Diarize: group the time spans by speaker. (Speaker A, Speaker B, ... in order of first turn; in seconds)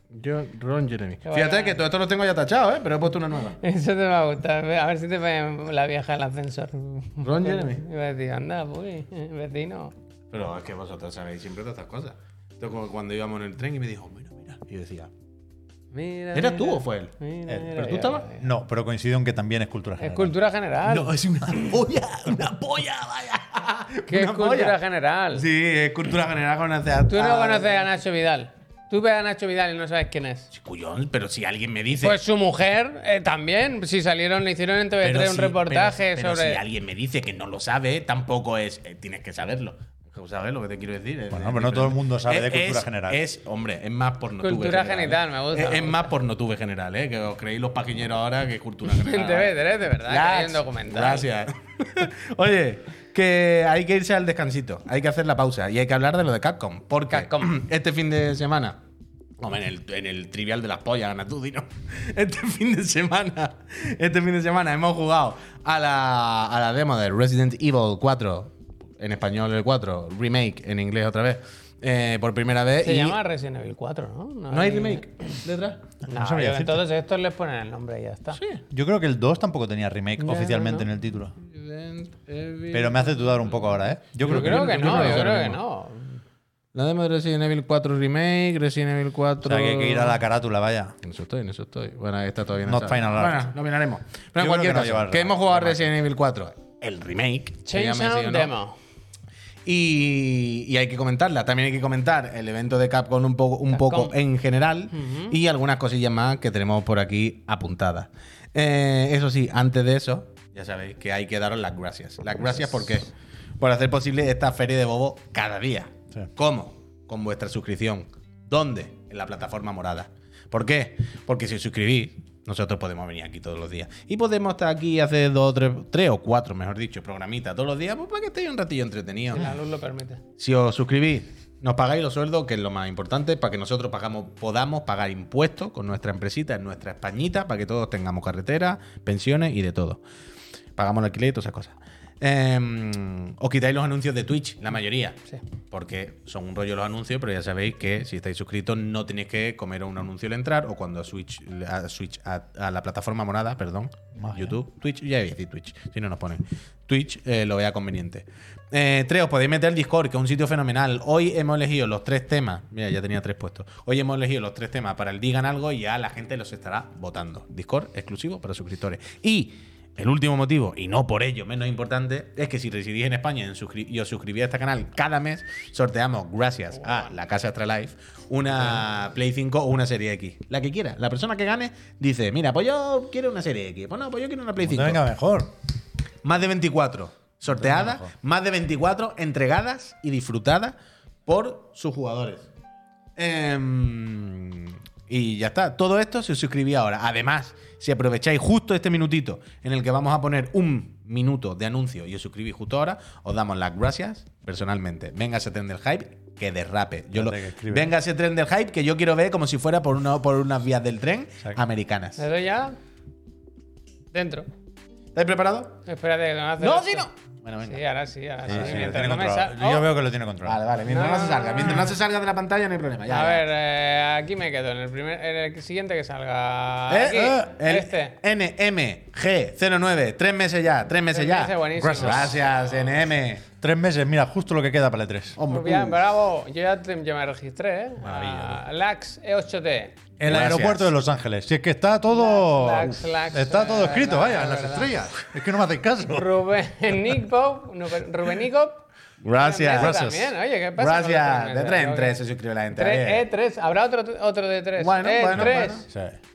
Speaker A: 0.1-3.6, 7.2-7.8, 10.3-15.1, 16.3-17.1, 17.7-18.3, 20.8-24.8, 25.3-27.9, 30.5-32.2, 35.0-58.8, 59.4-73.2, 74.5-75.8, 78.3-78.6, 81.4-83.5, 84.2-85.6, 86.7-90.2, 91.0-98.5, 99.7-113.1, 113.6-129.5, 130.4-140.0, 140.8-145.2, 145.7-185.1, 186.2-192.5, 193.2-212.3, 215.2-215.8, 216.6-217.8, 218.5-218.9, 220.4-223.5, 226.9-233.4, 235.4-236.0, 240.2-240.9, 249.2-250.1, 250.8-253.2, 254.8-255.8
Speaker B: 1.3-1.8, 3.6-9.9, 15.9-18.4, 20.0-21.1, 24.1-25.4, 27.1-30.5, 32.0-36.6, 44.4-46.1, 48.9-51.3, 57.1-57.4, 72.8-75.1, 76.1-78.4, 80.2-80.9, 84.2-86.2, 97.7-98.8, 103.7-104.1, 104.9-105.4, 129.3-130.2, 212.2-212.8, 214.1-214.5, 215.9-217.1, 217.7-219.9, 220.9-222.0, 223.1-228.2, 231.1-232.5, 235.5-240.0, 242.1-244.9, 246.1-252.2, 252.7-255.9
Speaker C: 17.5-20.4, 35.1-35.4, 41.3-43.2, 76.0-76.8, 78.7-81.3, 82.7-85.3, 89.4-91.0, 92.7-93.5, 94.4-95.9, 154.2-154.6, 184.6-185.5, 187.5-188.1, 207.1-207.9, 218.5-220.6, 227.2-227.4, 231.8-232.3, 233.6-235.4, 238.0-238.6, 240.2-246.3, 249.8-250.3, 255.3-256.2